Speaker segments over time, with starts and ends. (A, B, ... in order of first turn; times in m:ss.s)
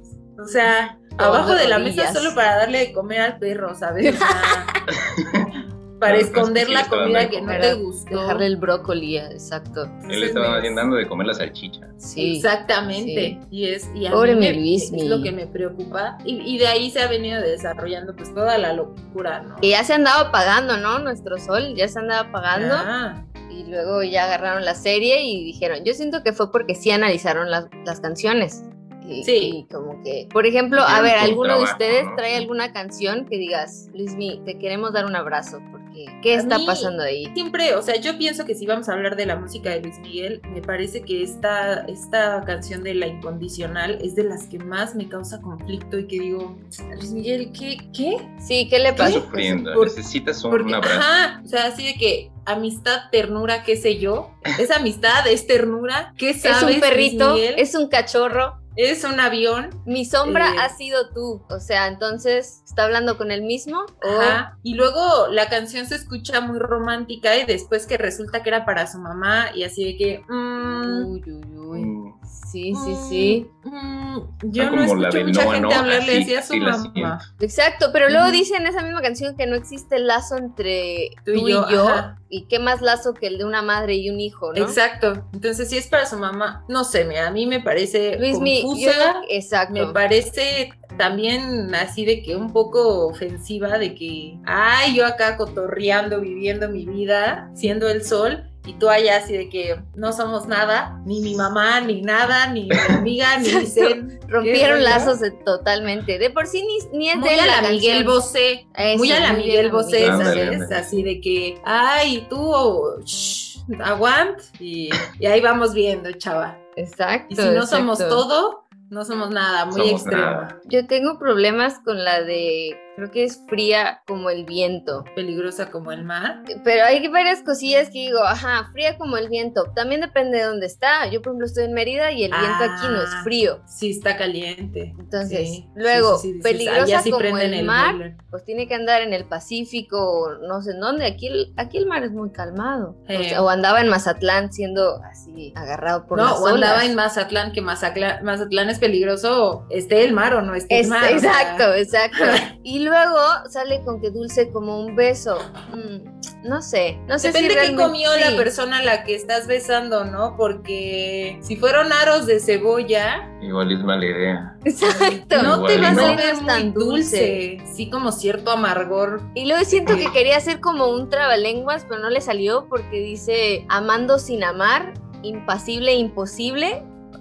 0:00.4-0:04.7 A
0:01.2-0:02.4 B
0:04.0-0:04.7 B
0:04.9-0:07.7 C
0:06.0-0:08.5 A
0:07.5-0:10.0 B
0:10.0-0:10.9 A
0:10.1-0:12.0 C
0:12.0-0:13.4 B
0:12.2-0:19.7 A
0:14.1-0:15.3 B
0:19.6-0:22.9 B
0:22.5-0:23.3 A
0:23.5-0:37.3 B
0:29.2-0:29.6 A
0:30.8-0:32.5 C
0:36.3-0:48.3 A
0:48.4-0:49.6 B
0:48.9-0:51.1 C
0:49.0-0:50.0 A
0:50.5-0:57.6 A
0:56.4-0:58.6 B
0:58.8-1:00.7 A
0:59.8-1:04.4 B
1:04.0-1:11.1 A
1:10.6-1:13.4 B
1:11.7-1:12.2 C
1:12.7-1:17.2 A
1:14.6-1:17.2 C
1:17.4-1:24.8 B
1:18.1-1:18.4 A
1:21.3-1:22.1 A
1:24.5-1:45.2 A
1:28.2-1:30.0 B
1:43.4-1:48.2 B
1:47.1-1:56.6 A
1:48.7-1:50.5 B
1:50.0-1:51.1 C
1:56.8-1:58.2 B
1:57.3-2:00.6 A
1:59.7-2:00.5 C
2:00.6-2:05.1 B
2:05.2-2:06.4 A
2:06.5-2:13.6 B
2:12.3-2:18.2 A
2:15.0-2:26.9 B
2:23.1-2:23.4 A
2:26.1-2:32.4 A
2:30.7-2:38.5 B
2:37.2-2:43.3 A
2:43.4-2:44.6 C
2:44.6-2:47.4 B
2:44.8-2:49.3 A
2:45.3-2:46.2 C
2:49.3-2:56.8 B